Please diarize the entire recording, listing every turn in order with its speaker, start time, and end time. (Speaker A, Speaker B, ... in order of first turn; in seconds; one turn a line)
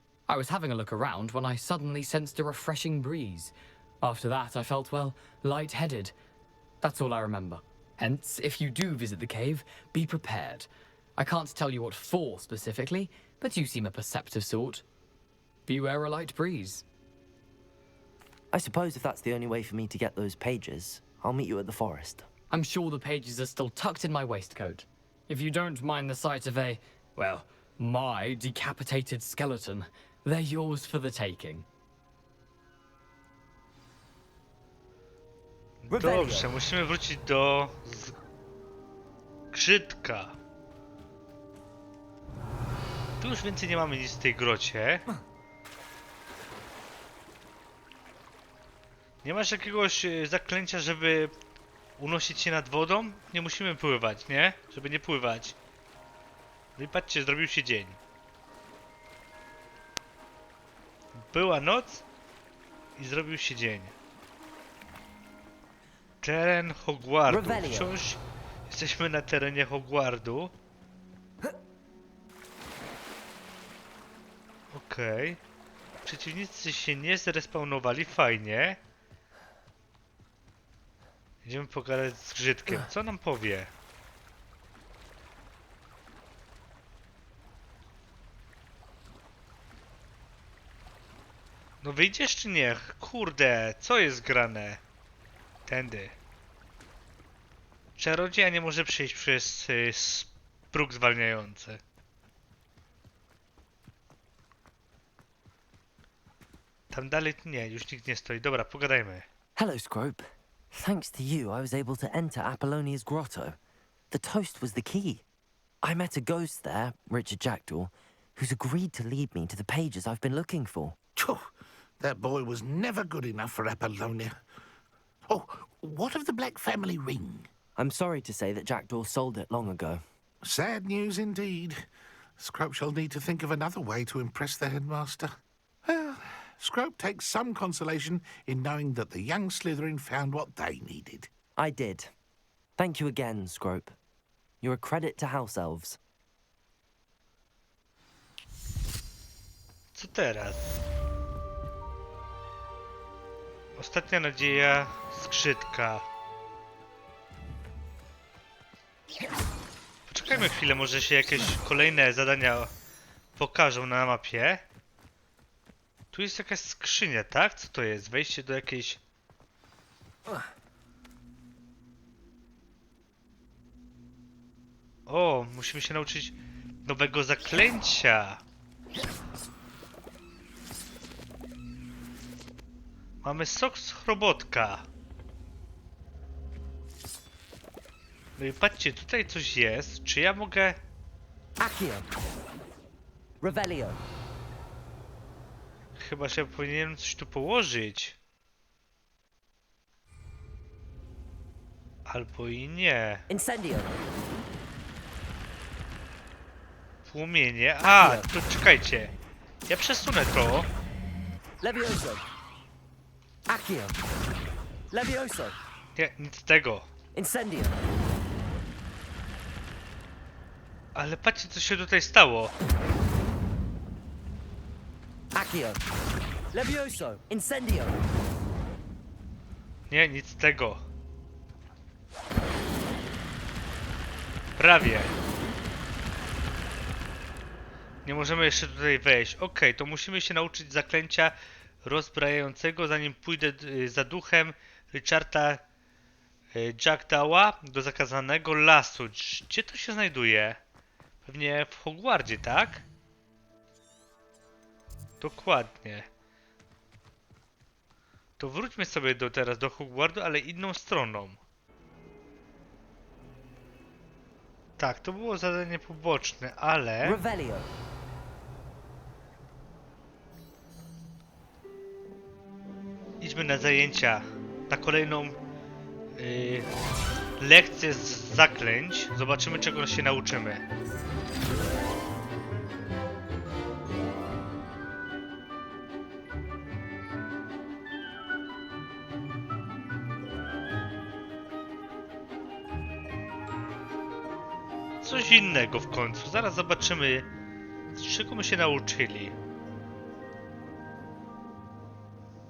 Speaker A: 0.3-6.1
Speaker A: 6.8-14.8
Speaker A: 15.7-16.8
Speaker B: 18.5-22.3
Speaker A: 22.5-31.6
Speaker C: 35.8-38.2
Speaker B: 35.9-36.5
Speaker C: 39.5-40.4
Speaker C: 43.2-45.0
Speaker C: 49.2-51.3
Speaker C: 52.0-55.5
Speaker C: 56.8-58.0
Speaker C: 61.1-62.0
Speaker C: 63.0-63.9
Speaker C: 66.2-70.5
Speaker B: 67.3-67.9
Speaker C: 74.7-75.4
Speaker C: 76.0-78.8
Speaker C: 81.4-83.7
Speaker C: 91.8-94.8
Speaker C: 95.7-96.2
Speaker C: 98.0-101.8
Speaker C: 106.9-109.2
Speaker B: 109.5-113.6
Speaker B: 114.1-115.2
Speaker B: 115.8-121.0
Speaker D: 121.2-124.3
Speaker D: 125.3-127.5
Speaker B: 127.8-130.0
Speaker D: 130.4-131.8
Speaker D: 132.4-141.3
Speaker B: 141.6-142.1
Speaker B: 142.8-143.9
Speaker B: 144.6-146.0
Speaker C: 149.9-150.8
Speaker C: 153.8-156.1
Speaker C: 160.1-162.7
Speaker C: 163.4-164.6
Speaker C: 166.1-169.0
Speaker C: 175.1-178.4
Speaker C: 183.2-184.8
Speaker C: 188.4-190.8
Speaker B: 191.6-192.1
Speaker B: 193.4-194.0
Speaker C: 196.0-198.2
Speaker C: 202.1-203.2
Speaker B: 203.3-203.9
Speaker C: 207.1-209.1
Speaker B: 207.8-208.3
Speaker C: 209.7-210.7
Speaker B: 211.6-212.2
Speaker B: 213.5-214.0
Speaker B: 214.9-215.6
Speaker C: 215.9-216.9
Speaker B: 217.1-217.8
Speaker C: 220.9-222.5
Speaker B: 225.3-225.8
Speaker B: 226.5-228.0
Speaker C: 229.9-230.8
Speaker C: 234.6-235.1
Speaker C: 238.0-245.6
Speaker C: 246.5-250.6
Speaker C: 251.2-252.8
Speaker C: 255.2-256.1
Speaker C: 258.4-261.4
Speaker C: 264.8-267.2
Speaker B: 267.0-267.7
Speaker C: 273.2-275.4
Speaker C: 276.1-276.7
Speaker C: 277.4-280.6
Speaker C: 295.0-297.3
Speaker C: 297.9-299.4